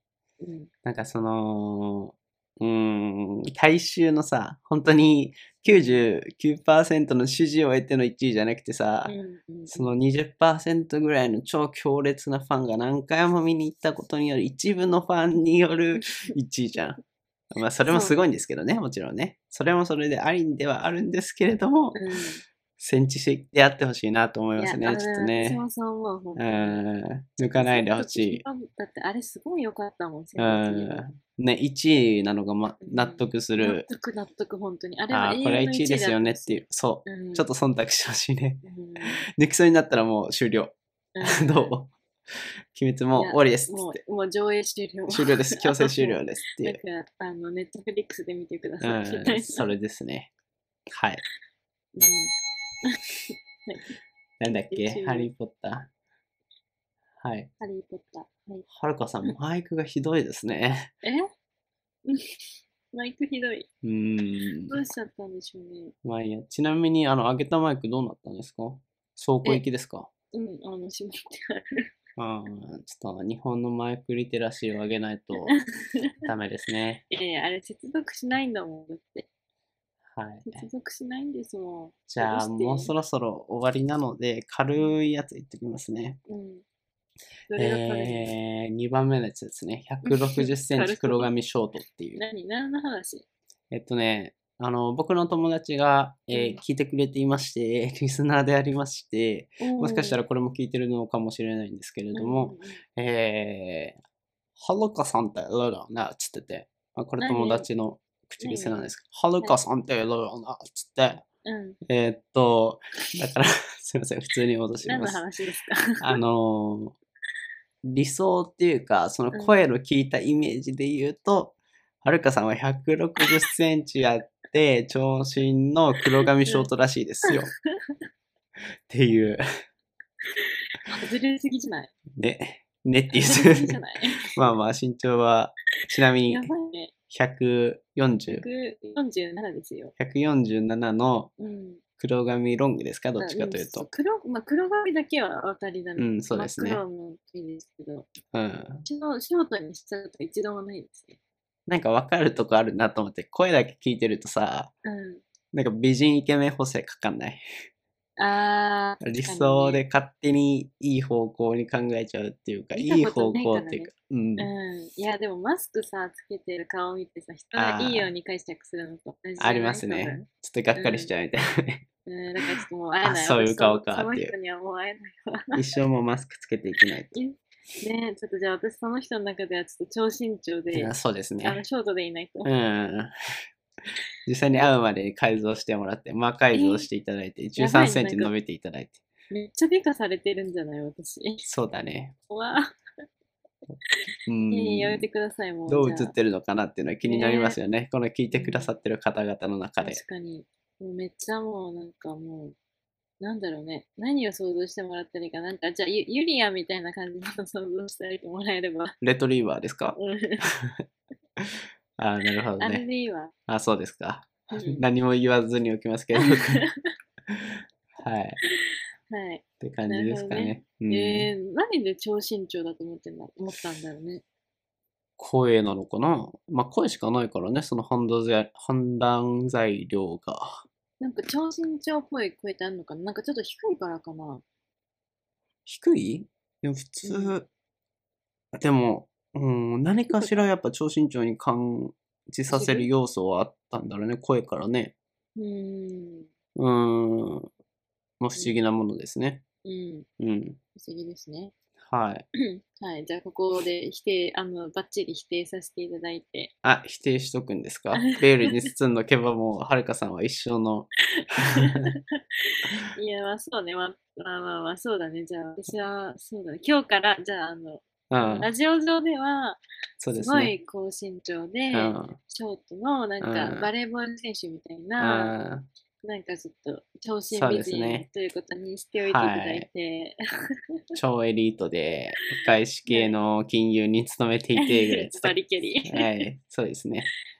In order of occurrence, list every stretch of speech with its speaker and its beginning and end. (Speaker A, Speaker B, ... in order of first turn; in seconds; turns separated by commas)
Speaker A: 0.4-0.7, Speaker B: 0.8-9.2, Speaker A: 5.7-6.0, Speaker A: 9.1-9.9, Speaker B: 9.7-17.0, Speaker B: 17.5-22.0, Speaker A: 17.9-18.2, Speaker A: 21.9-22.4, Speaker B: 22.8-25.6, Speaker A: 24.6-26.8, Speaker B: 26.4-28.4, Speaker A: 27.5-31.1, Speaker B: 30.4-33.9, Speaker A: 32.8-37.5, Speaker B: 35.1-41.9, Speaker A: 38.6-39.2, Speaker A: 41.1-41.7, Speaker B: 42.7-44.0, Speaker A: 43.1-49.6, Speaker B: 45.1-46.8, Speaker B: 48.8-50.3, Speaker B: 50.9-51.2, Speaker A: 52.0-53.9, Speaker B: 54.4-55.9, Speaker A: 54.7-55.3, Speaker B: 57.2-57.5, Speaker A: 57.6-58.6, Speaker B: 58.7-60.9, Speaker A: 61.0-61.3, Speaker A: 62.1-63.7, Speaker B: 63.8-64.7, Speaker A: 64.7-65.9, Speaker B: 66.0-70.1, Speaker A: 70.3-71.8, Speaker B: 72.2-75.5, Speaker B: 76.2-77.0, Speaker A: 77.1-79.2, Speaker B: 80.1-80.6, Speaker A: 80.5-82.9, Speaker B: 82.1-86.2, Speaker A: 86.3-86.6, Speaker A: 87.5-88.3, Speaker B: 87.5-92.2, Speaker A: 90.0-91.3, Speaker A: 92.2-93.2, Speaker B: 93.7-104.0, Speaker A: 96.3-96.6, Speaker A: 99.6-100.2, Speaker A: 102.1-102.8, Speaker B: 104.6-111.2, Speaker A: 107.2-107.7, Speaker A: 108.4-108.8, Speaker A: 111.4-111.8, Speaker B: 111.8-115.2, Speaker A: 114.8-116.2, Speaker B: 116.0-116.9, Speaker B: 117.8-127.5, Speaker A: 119.3-119.6, Speaker A: 126.2-126.7, Speaker A: 127.2-128.0, Speaker B: 128.9-129.4, Speaker A: 130.4-131.9, Speaker B: 132.2-136.5, Speaker A: 133.1-134.4, Speaker A: 136.3-136.9, Speaker B: 137.1-138.4, Speaker A: 138.3-139.9, Speaker B: 140.0-141.3, Speaker A: 141.4-141.8, Speaker B: 142.0-143.9, Speaker A: 143.2-148.1, Speaker B: 146.0-146.8, Speaker B: 148.3-148.8, Speaker A: 148.8-151.2, Speaker B: 151.7-154.7, Speaker A: 154.8-155.2, Speaker B: 155.5-157.4, Speaker A: 158.2-159.8, Speaker B: 159.0-164.5, Speaker A: 162.7-170.2, Speaker B: 167.5-168.1, Speaker B: 169.4-171.8, Speaker A: 170.8-171.1, Speaker A: 172.1-175.6, Speaker B: 173.0-174.3, Speaker B: 175.5-177.2, Speaker A: 177.1-180.9, Speaker B: 180.7-181.6, Speaker A: 181.4-182.5, Speaker B: 182.4-183.1, Speaker B: 184.2-189.0, Speaker A: 186.5-186.9, Speaker A: 187.6-188.3, Speaker A: 189.3-191.4, Speaker B: 191.4-192.2, Speaker A: 192.3-192.7, Speaker A: 193.9-196.1, Speaker B: 194.2-195.1, Speaker B: 195.7-200.0, Speaker A: 197.0-197.6, Speaker A: 198.3-198.7, Speaker A: 199.8-202.5, Speaker A: 203.2-208.9, Speaker B: 209.0-210.8, Speaker A: 209.9-210.4, Speaker B: 211.4-212.8, Speaker A: 212.6-213.3, Speaker B: 213.5-216.6, Speaker A: 214.5-214.8, Speaker A: 216.2-216.9, Speaker B: 217.3-218.4, Speaker A: 218.5-224.2, Speaker B: 219.6-221.3, Speaker B: 225.2-230.6, Speaker A: 231.0-234.4, Speaker B: 235.7-237.5, Speaker A: 237.0-237.3, Speaker B: 238.5-244.9, Speaker A: 240.1-240.3, Speaker A: 242.5-242.9, Speaker A: 245.3-246.3, Speaker B: 246.6-247.5, Speaker B: 248.2-249.4, Speaker A: 248.3-248.7, Speaker A: 249.6-250.1, Speaker B: 250.2-250.6, Speaker A: 250.8-251.5, Speaker B: 251.8-252.2, Speaker A: 252.4-256.5, Speaker B: 256.6-261.9, Speaker A: 258.0-258.6, Speaker A: 261.2-262.0, Speaker A: 262.5-269.6, Speaker B: 268.1-268.5, Speaker B: 270.0-270.5, Speaker A: 270.1-275.3, Speaker B: 271.7-272.2, Speaker B: 273.2-273.7, Speaker B: 275.0-275.6, Speaker A: 276.0-280.2, Speaker B: 277.3-278.1, Speaker B: 279.0-279.7, Speaker B: 280.9-285.3, Speaker A: 282.9-283.1, Speaker A: 284.6-286.2, Speaker B: 285.8-287.1